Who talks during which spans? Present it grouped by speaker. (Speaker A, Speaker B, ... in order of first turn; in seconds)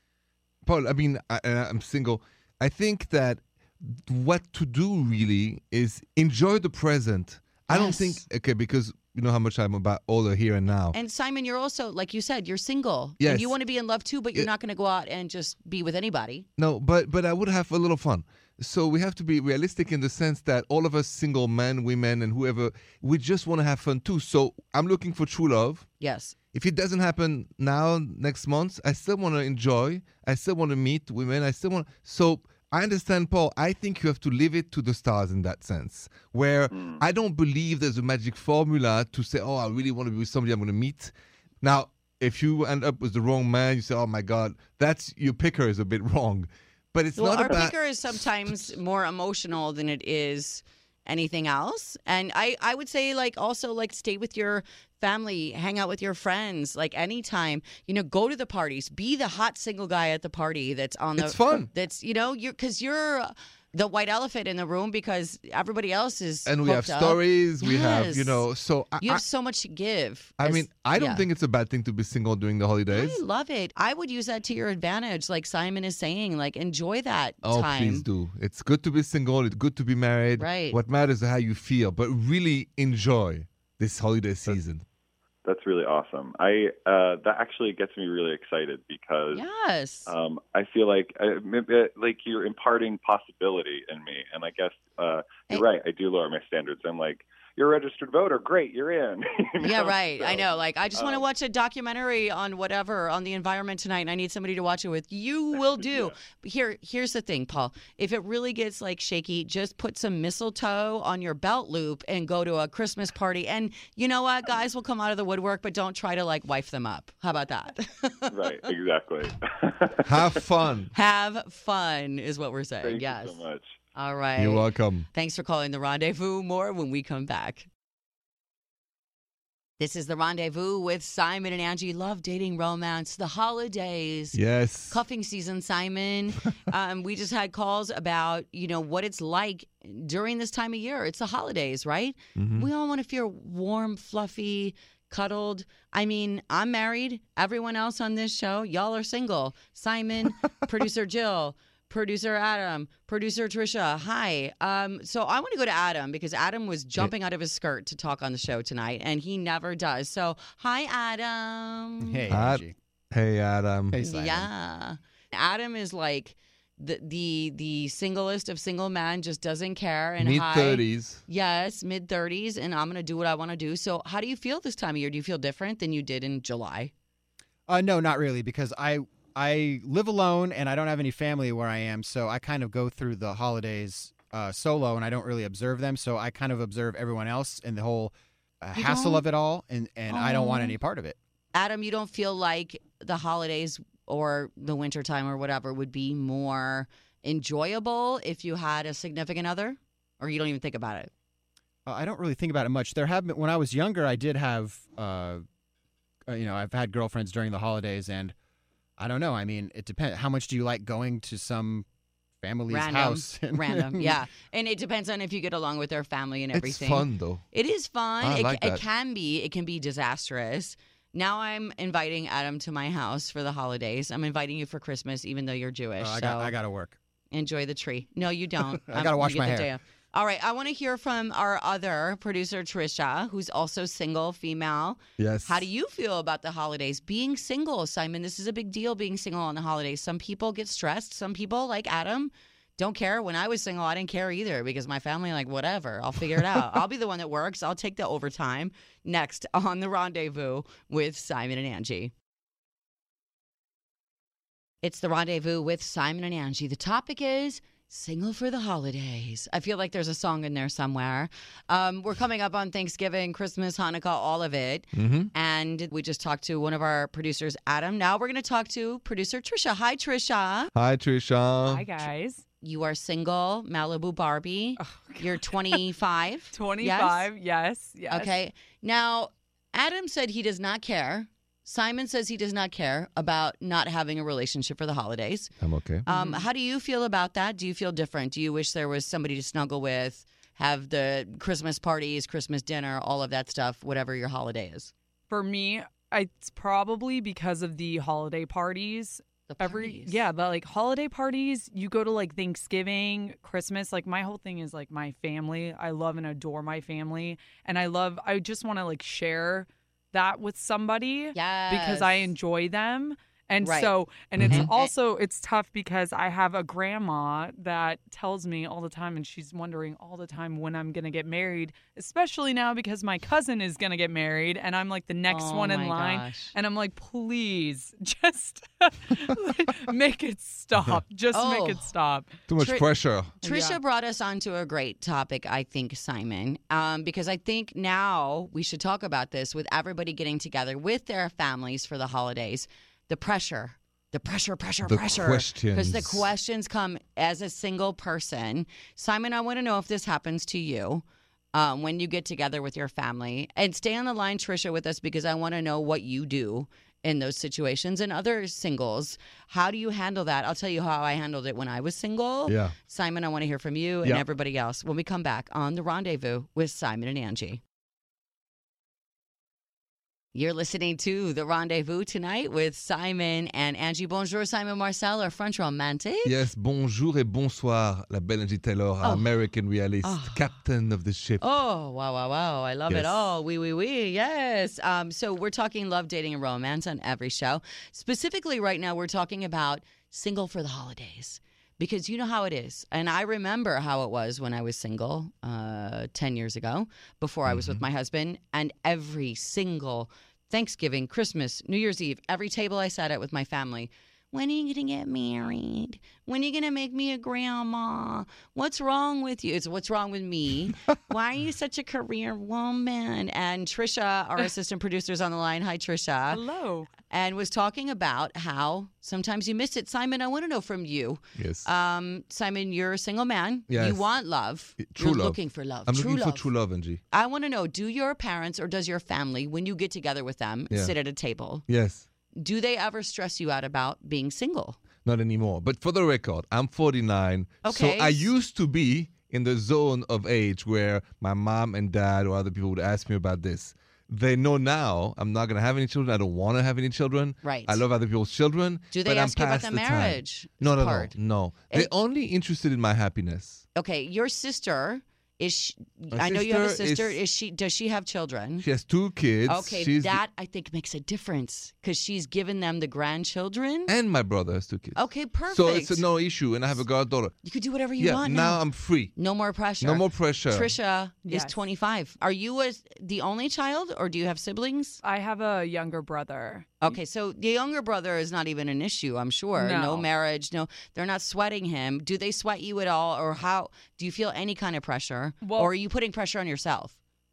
Speaker A: 0.7-11.0, 13.2-13.5, 16.6-25.9, 26.5-48.7, 61.2-61.7, 66.5-69.2, 70.4-73.2, 77.4-84.8, 120.0-120.9, 124.4-125.1, 134.3-135.0, 142.4-142.7, 162.3-164.0, 170.2-171.2, 216.5-217.4, 218.2-218.8, 235.2-235.7, 264.9-265.3, 270.8-271.8, 285.6-286.1, 314.4-314.7, 330.8-331.0, 332.5-333.4, 344.9-346.3, 362.5-362.8, 376.2-381.5, 397.5-397.8, 421.4-421.7, 423.7-424.0, 424.8-427.0, 431.7-432.1, 435.1-453.6, 456.1-457.2, 458.6-460.2, 463.9-467.4, 468.0-469.1, 469.8-470.7
Speaker B: 7.7-8.2, 10.9-16.5, 26.0-26.4, 47.2-68.5, 69.0-71.2, 72.9-78.1, 80.4-80.8, 89.3-90.1, 99.6-118.6, 120.9-123.4, 124.0-127.7, 129.8-134.4, 134.9-162.3, 164.0-176.9, 188.8-189.2, 190.1-190.8, 191.6-201.1, 212.7-226.6, 227.3-252.1, 254.8-270.7, 272.6-277.3, 278.1-285.5, 286.1-294.9, 299.5-300.2, 311.3-312.3, 313.6-313.9, 314.5-314.9, 325.3-326.5, 331.3-331.9, 332.6-332.9, 333.4-367.6, 370.4-376.4, 379.0-379.3, 380.0-380.4, 381.4-416.4, 417.1-426.5, 427.1-431.6, 432.4-434.8, 437.6-438.3, 447.4-447.8, 448.9-451.2, 453.8-458.7, 459.5-463.9, 464.9-466.1, 467.4-468.6, 469.1-475.0, 476.8-486.9
Speaker C: 36.7-37.0, 85.5-89.5, 90.1-101.3, 105.7-106.2, 118.3-120.3, 122.8-123.8
Speaker D: 162.0-162.7, 163.9-164.5, 177.7-191.2, 201.9-205.4, 206.3-208.3, 209.0-211.9, 212.4-214.2, 226.0-227.0, 228.7-229.7
Speaker E: 271.6-272.4, 274.8-275.8, 276.5-278.3, 286.1-286.5, 295.3-332.3, 333.4-333.8, 416.3-416.9, 471.3-471.6, 475.0-477.0, 479.6-480.1, 485.4-485.7